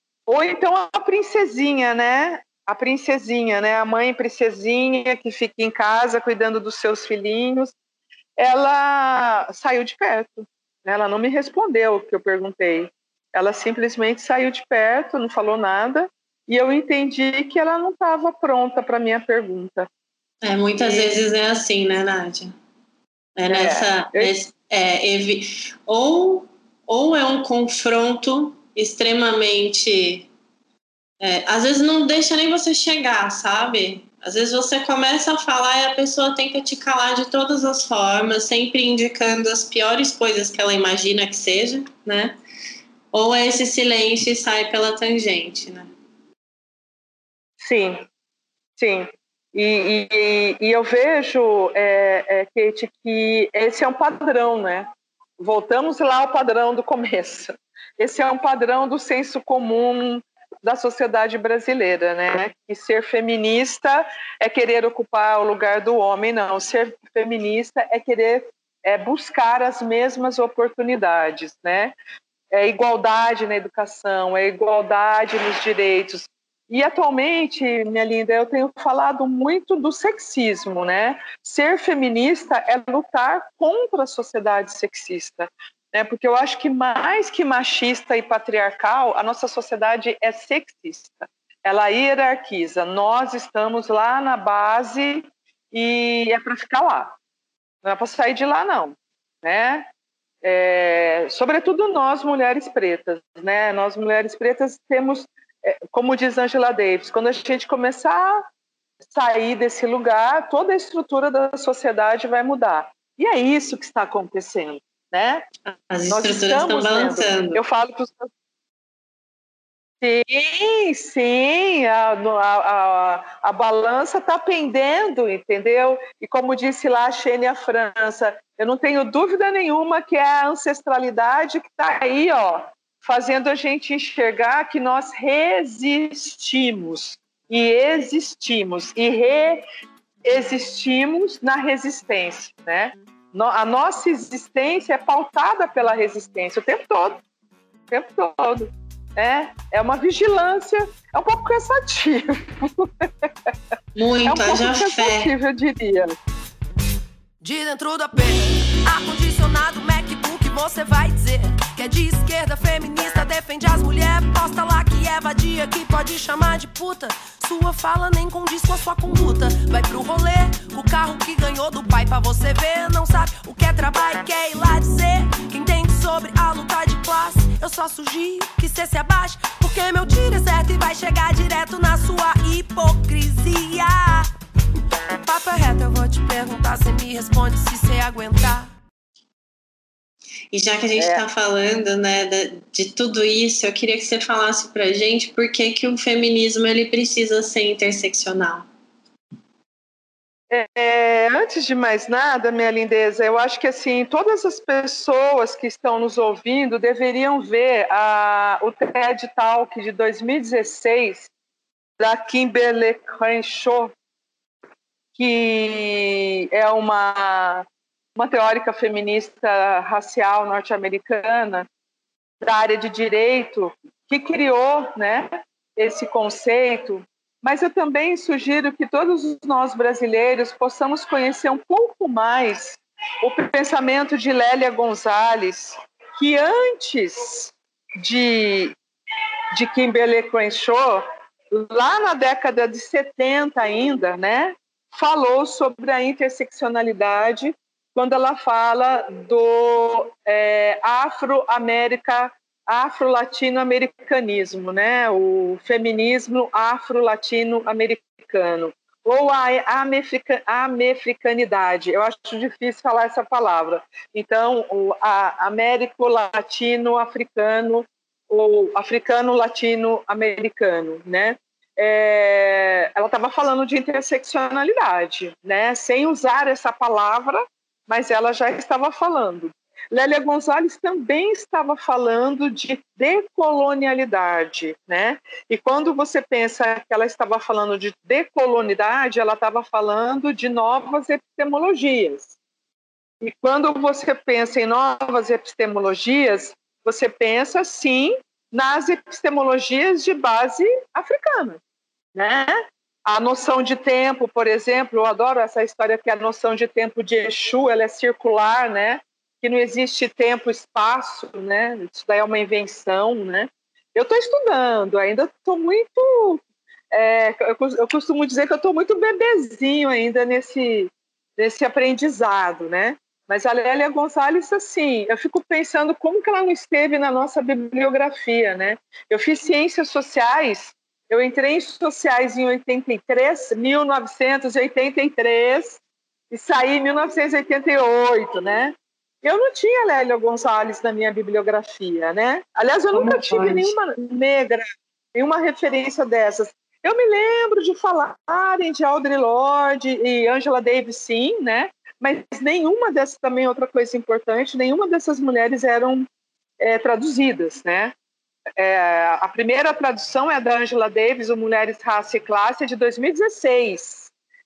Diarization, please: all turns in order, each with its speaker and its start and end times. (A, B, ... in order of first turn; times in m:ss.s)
0:00.3-0:07.7 A
0:08.4-0:19.9 A
0:20.4-0:22.5 B
0:20.8-0:21.2 A
0:23.4-0:30.3 B
0:23.5-0:24.5 A
0:31.2-0:42.4 B
0:43.1-0:45.9 B
0:47.6-0:48.0 A
0:48.8-1:11.9 A
1:12.5-1:37.2 A
1:37.8-1:39.9 A
1:40.4-1:48.5 A
1:49.1-1:55.4 A
1:55.9-1:57.6 B
1:56.1-1:58.3 A
2:00.0-2:19.6 A
2:20.2-2:27.2 A
2:27.9-2:33.3 A
2:33.9-2:35.3 B
2:34.2-2:36.2 A
2:37.4-3:04.3 C
3:05.2-3:08.7 C
3:10.5-3:18.7 B
3:11.0-3:11.2 A
3:20.5-3:31.3 A
3:32.0-3:33.9 A
3:35.2-3:37.6 A
3:38.2-3:41.7 A
3:42.4-3:58.7 A
3:59.5-4:52.3 A
4:53.2-5:01.6 A
5:02.1-5:16.4 A
5:16.9-5:56.1 A
5:42.9-5:43.7 B
5:56.6-5:57.9 A
5:58.6-6:04.1 A